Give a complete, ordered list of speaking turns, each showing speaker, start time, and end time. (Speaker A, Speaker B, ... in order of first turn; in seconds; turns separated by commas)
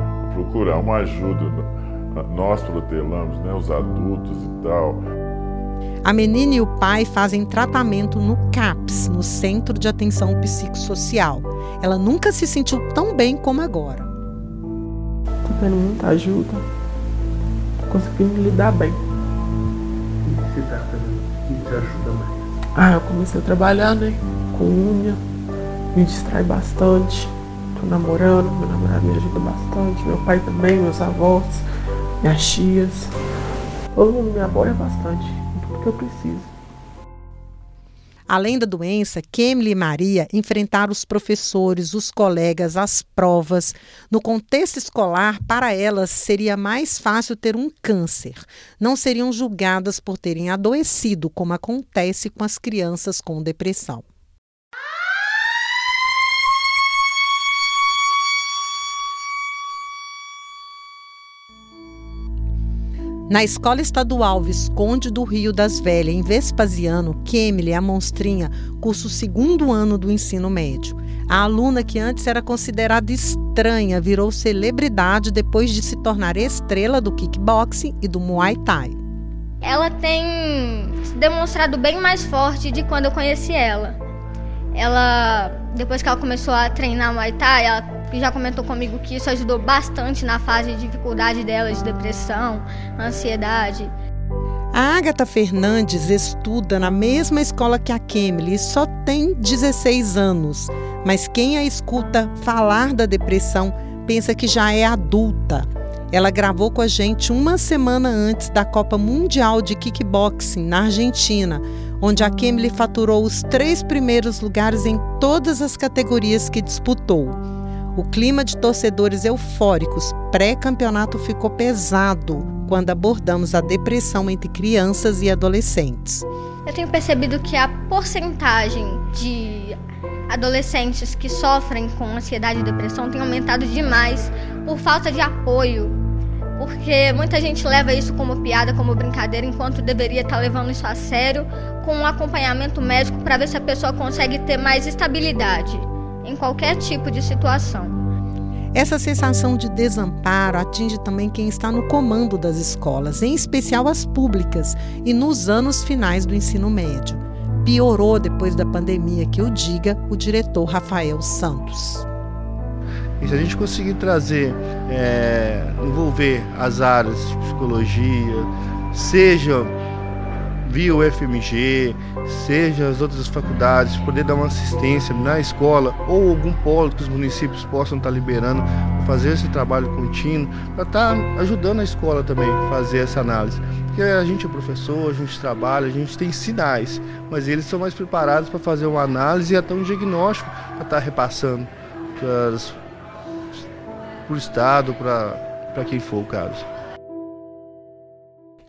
Speaker A: 0.2-5.0, Speaker B: 6.0-14.1, Speaker C: 15.4-16.6, Speaker C: 17.9-19.0, Speaker D: 20.3-22.4, Speaker C: 22.7-25.2, Speaker C: 25.9-31.6, Speaker C: 32.2-33.1, Speaker C: 33.9-36.5, Speaker B: 38.3-54.0, Speaker B: 63.3-79.0, Speaker E: 79.6-84.0, Speaker E: 84.8-93.9, Speaker B: 94.7-117.4, Speaker B: 118.0-126.3, Speaker E: 126.7-129.8, Speaker E: 130.3-136.0, Speaker E: 136.6-148.0, Speaker B: 148.8-162.1, Speaker F: 163.2-169.7, Speaker F: 170.7-192.8, Speaker F: 194.3-196.7